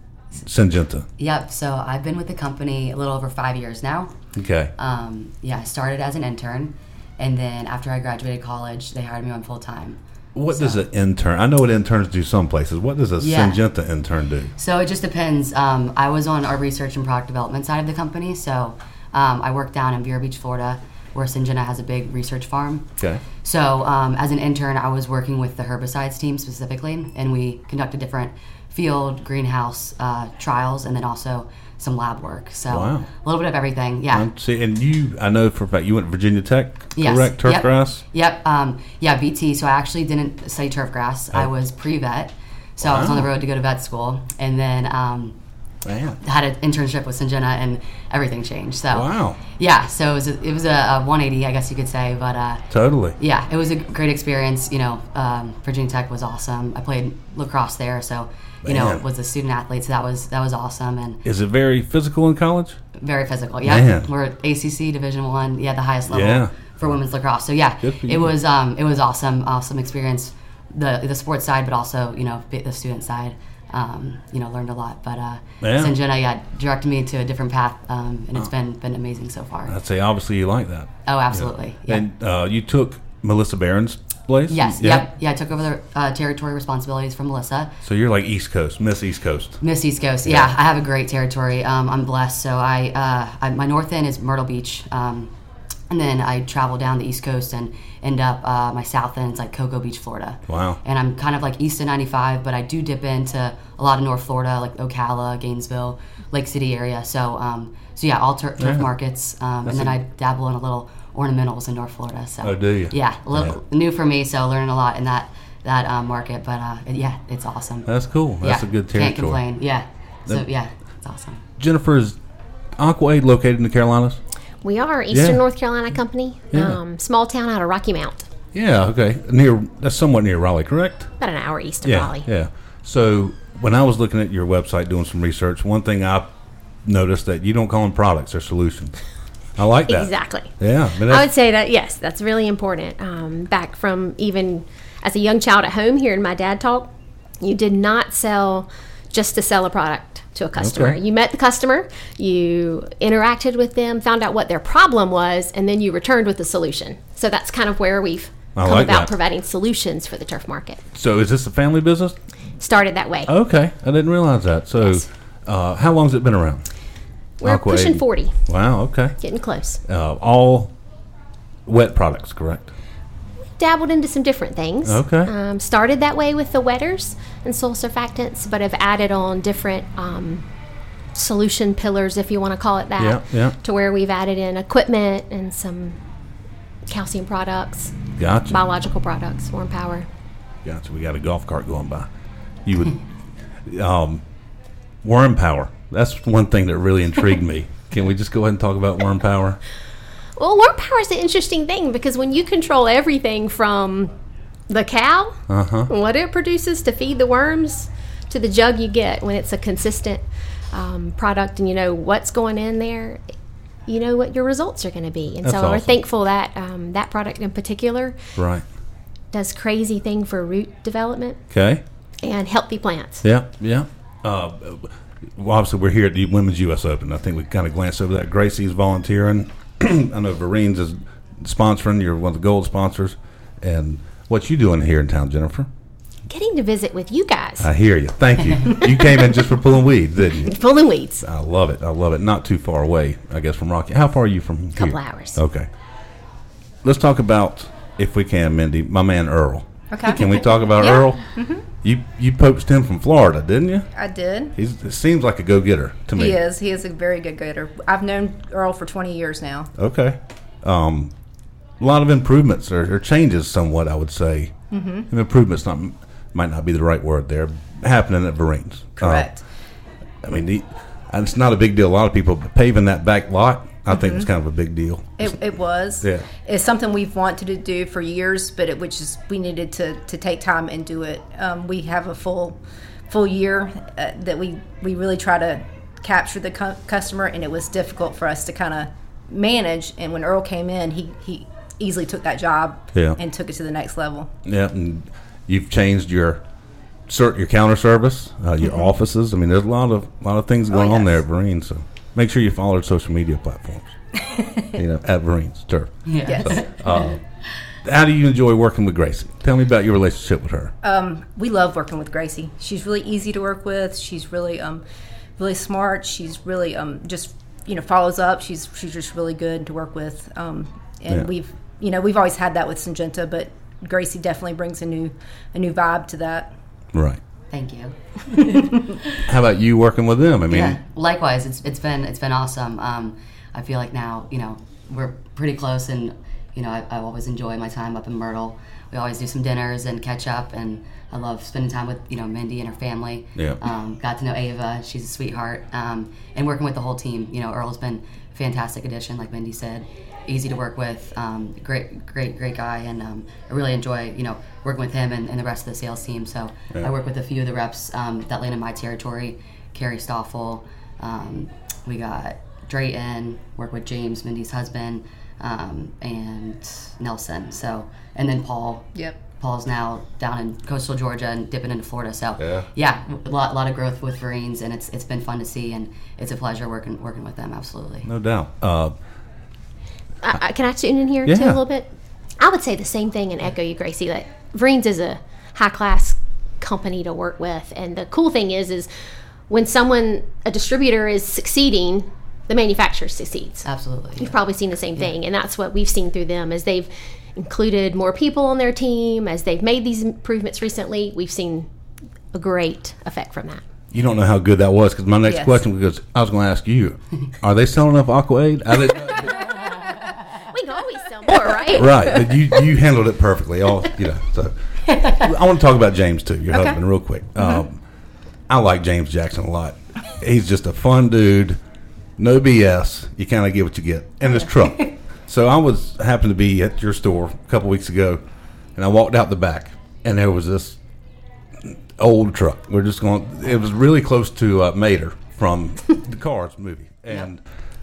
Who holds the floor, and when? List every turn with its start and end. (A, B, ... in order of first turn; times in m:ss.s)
0:00.4-0:01.0 A
0:01.2-0:04.1 B
0:04.3-0:04.7 A
0:04.8-0:10.0 B
0:10.3-0:14.5 A
0:10.5-0:10.8 B
0:13.2-0:13.6 B
0:14.6-0:22.9 B
0:23.4-0:34.3 B
0:32.7-0:33.1 A
0:34.1-0:38.0 A
0:37.0-0:45.4 B
0:42.8-0:43.3 A
0:45.8-0:46.2 A
0:46.2-0:52.6 B
0:48.9-0:49.4 A
0:52.7-0:53.2 A
0:53.2-1:01.2 B
0:58.6-0:59.0 A
1:01.2-1:02.8 A
1:03.0-1:19.8 B
1:03.6-1:04.1 A
1:06.1-1:07.0 A
1:07.8-1:08.3 A
1:15.6-1:16.0 A
1:19.6-1:25.1 A
1:21.0-1:22.0 B
1:24.5-1:27.8 B
1:27.8-1:29.6 A
1:29.6-1:35.3 B
1:30.2-1:30.5 A
1:35.9-1:57.9 B
1:40.5-1:40.8 A
1:48.6-1:48.9 A
1:49.6-1:49.9 A
1:52.4-1:53.6 A
1:57.8-1:59.4 A
1:58.4-2:01.4 B
2:01.6-2:02.2 A
2:02.8-2:04.2 A
2:04.6-2:08.3 C
2:05.1-2:05.4 A
2:06.5-2:06.8 A
2:08.5-2:11.1 A
2:11.2-2:12.3 C
2:11.8-2:19.0 A
2:19.6-2:21.3 A
2:19.9-2:40.8 C
2:30.6-2:31.0 A
2:38.5-2:39.1 A
2:40.9-2:42.2 A
2:42.6-2:43.3 C
2:43.3-2:46.6 A
2:44.8-2:45.1 C
2:47.4-2:48.4 C
2:47.4-2:49.2 A
2:49.2-2:49.8 C
2:49.8-2:50.7 A
2:51.6-2:52.7 A
2:53.6-3:00.4 C
2:54.8-2:55.3 A
3:01.1-3:06.0 C
3:03.0-3:03.5 A
3:06.9-3:08.0 C
3:08.2-3:08.6 A
3:08.5-3:10.1 C
3:10.6-3:12.1 A
3:12.6-3:13.0 A
3:13.6-3:14.2 A
3:15.0-3:19.6 A
3:20.4-3:24.1 C
3:24.7-3:33.2 C
3:25.5-3:25.9 A
3:33.9-3:38.2 C
3:35.4-3:36.0 A
3:38.4-3:38.6 A
3:39.3-3:41.4 C
3:41.5-3:41.8 A
3:42.2-3:43.2 C
3:43.2-3:55.7 A
3:56.3-3:57.7 C
3:57.6-4:00.6 A
4:00.4-4:01.2 C
4:01.2-4:05.7 A
4:04.8-4:05.4 C
4:06.8-4:13.9 A
4:09.9-4:11.6 D
4:13.9-4:14.5 D
4:14.5-4:16.4 A
4:16.1-4:19.7 D
4:19.8-4:21.1 A
4:21.8-4:24.5 A
4:24.7-4:25.1 D
4:25.1-4:29.3 A
4:29.0-4:29.4 D
4:30.2-4:35.4 A
4:33.9-4:34.3 D
4:35.2-4:54.3 D
4:36.0-4:36.3 A
4:52.9-4:53.2 A
4:54.4-4:56.4 A
4:57.1-5:03.9 A
5:00.7-5:01.2 D
5:04.2-5:04.7 D
5:04.7-5:07.2 A
5:06.0-5:07.2 B
5:06.3-5:06.6 D
5:07.8-5:10.7 A
5:10.8-5:14.8 D
5:15.4-5:26.5 D
5:26.9-5:27.2 A
5:27.5-5:28.8 B
5:29.2-5:30.8 A
5:30.5-6:18.1 B
6:12.4-6:12.6 A
6:18.0-6:18.9 A
6:20.2-6:28.9 C
6:21.2-6:21.6 A
6:29.5-6:33.6 C
6:33.6-6:34.4 B
6:34.2-6:41.7 C
6:42.3-6:43.6 C
6:43.9-6:49.4 A
6:45.3-6:45.6 D
6:50.4-6:52.4 C
6:51.6-6:57.8 A
6:56.5-6:56.8 D
6:58.5-7:01.6 A
7:02.2-7:08.2 A
7:08.8-7:10.8 A
7:11.6-7:17.4 A